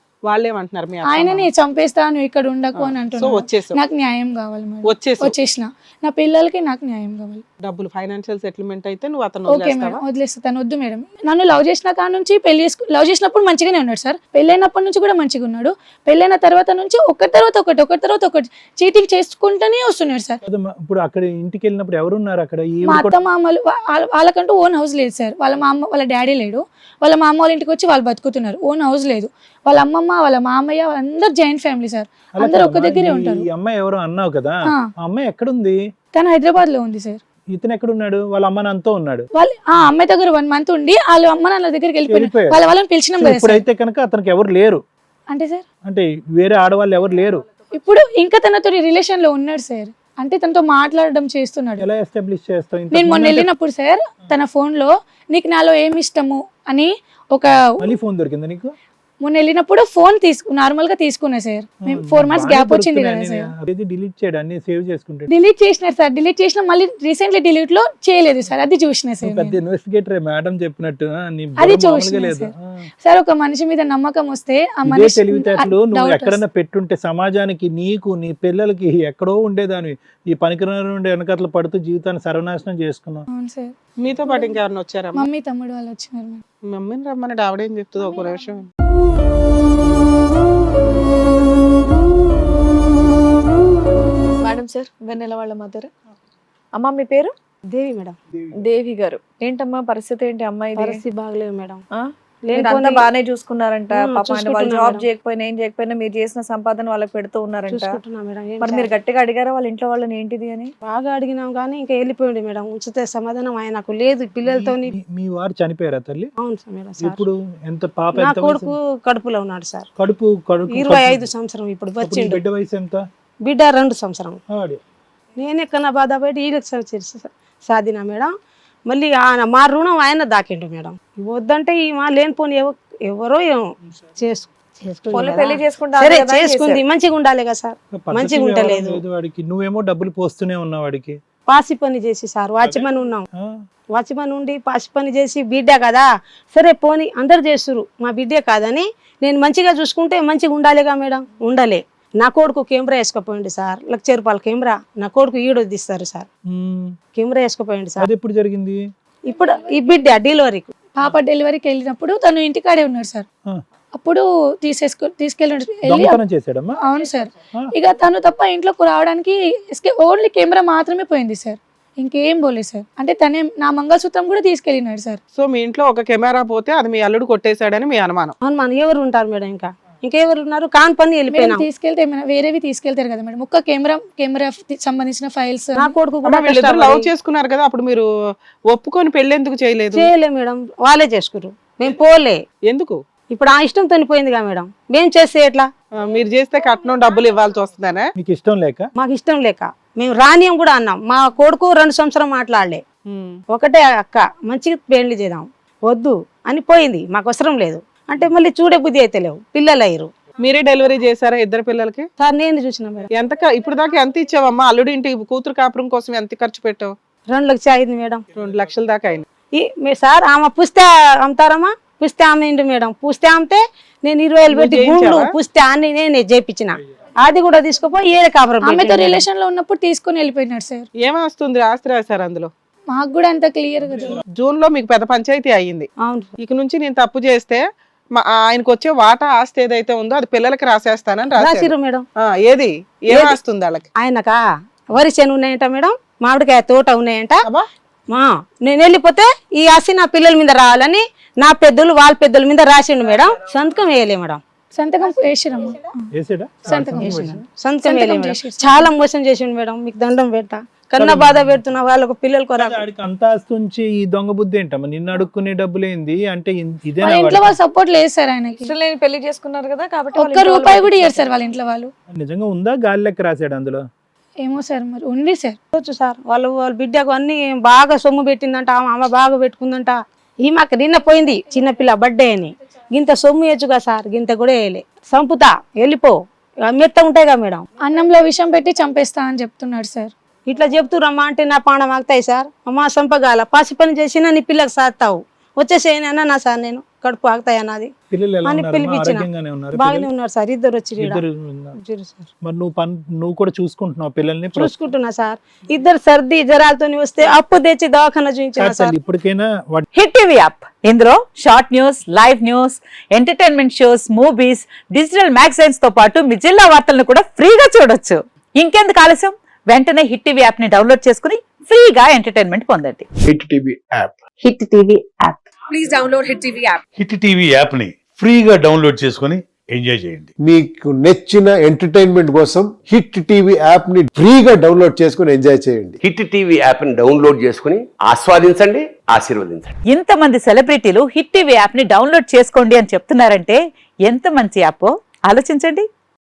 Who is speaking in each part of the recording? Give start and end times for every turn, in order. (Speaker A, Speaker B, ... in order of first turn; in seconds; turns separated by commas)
Speaker A: 0.3-1.5, Speaker B: 1.1-7.4, Speaker A: 2.8-3.8, Speaker A: 4.8-5.3, Speaker A: 7.6-10.0, Speaker B: 9.5-20.4, Speaker C: 20.4-23.1, Speaker B: 22.8-33.5, Speaker C: 32.4-35.8, Speaker B: 36.1-37.2, Speaker C: 37.5-39.3, Speaker B: 39.3-43.6, Speaker C: 42.1-42.6, Speaker C: 43.2-44.8, Speaker B: 45.3-45.6, Speaker C: 45.9-47.4, Speaker B: 47.7-51.9, Speaker C: 51.8-53.5, Speaker B: 52.9-57.5, Speaker C: 57.8-58.8, Speaker B: 59.2-63.5, Speaker C: 61.8-65.3, Speaker B: 65.3-69.6, Speaker C: 69.2-72.8, Speaker B: 71.6-76.4, Speaker C: 74.8-83.2, Speaker B: 83.3-83.7, Speaker A: 84.0-85.3, Speaker B: 85.1-86.4, Speaker A: 86.7-88.6, Speaker B: 88.0-88.5, Speaker D: 94.4-95.9, Speaker D: 96.8-97.3, Speaker E: 97.7-98.2, Speaker D: 98.6-100.9, Speaker E: 100.7-101.8, Speaker E: 102.5-103.1, Speaker D: 102.6-107.8, Speaker E: 103.9-105.1, Speaker E: 107.6-108.9, Speaker D: 108.7-110.7, Speaker E: 110.8-114.9, Speaker C: 114.5-116.3, Speaker E: 116.4-117.2, Speaker C: 117.0-118.7, Speaker E: 118.1-119.9, Speaker C: 120.0-121.3, Speaker E: 120.7-122.4, Speaker C: 122.0-123.0, Speaker E: 123.4-124.4, Speaker C: 124.5-124.8, Speaker E: 125.4-128.3, Speaker E: 128.9-139.0, Speaker D: 135.1-135.9, Speaker C: 137.9-141.2, Speaker E: 141.5-143.2, Speaker C: 142.6-143.5, Speaker E: 143.9-156.3, Speaker C: 156.5-156.9, Speaker E: 157.1-158.1, Speaker C: 158.0-158.8, Speaker E: 159.3-160.7, Speaker B: 160.9-163.2, Speaker B: 163.9-166.2, Speaker C: 165.9-166.8, Speaker B: 166.8-175.2, Speaker A: 175.3-178.3, Speaker E: 178.4-181.7, Speaker B: 181.3-185.9, Speaker E: 185.8-187.1, Speaker A: 186.2-188.1, Speaker A: 188.7-190.1, Speaker E: 189.9-192.4, Speaker A: 192.7-192.9, Speaker E: 193.3-195.7, Speaker A: 196.0-198.1, Speaker C: 198.2-198.9, Speaker E: 199.0-202.8, Speaker A: 203.1-203.4, Speaker E: 203.5-210.1, Speaker A: 210.4-212.1, Speaker E: 212.2-213.1, Speaker A: 213.1-216.9, Speaker E: 217.3-218.2, Speaker A: 218.3-219.2, Speaker E: 219.5-229.2, Speaker A: 224.5-225.3, Speaker B: 228.6-230.8, Speaker A: 231.0-232.5, Speaker B: 232.9-234.2, Speaker A: 234.4-235.9, Speaker E: 236.0-236.3, Speaker A: 236.4-237.6, Speaker A: 238.2-243.8, Speaker E: 241.3-242.0, Speaker E: 243.1-243.4, Speaker E: 243.9-244.4, Speaker E: 244.9-247.4, Speaker E: 248.1-254.4, Speaker B: 254.7-255.8, Speaker C: 256.1-257.4, Speaker B: 256.6-258.9, Speaker E: 256.7-262.8, Speaker C: 261.0-261.6, Speaker C: 262.6-267.5, Speaker B: 267.0-268.7, Speaker D: 268.6-271.1, Speaker B: 270.1-271.9, Speaker C: 272.1-273.8, Speaker B: 274.4-275.6, Speaker E: 275.7-287.6, Speaker B: 287.8-290.1, Speaker E: 290.4-297.9, Speaker C: 298.1-300.1, Speaker E: 298.4-299.2, Speaker E: 299.8-301.2, Speaker C: 301.0-301.8, Speaker E: 301.8-302.3, Speaker C: 302.4-304.7, Speaker E: 304.5-308.9, Speaker C: 308.6-309.9, Speaker F: 309.9-323.0, Speaker G: 323.3-324.1, Speaker F: 324.5-325.2, Speaker H: 327.0-330.2, Speaker G: 330.4-336.0, Speaker I: 336.0-339.7, Speaker F: 339.9-345.9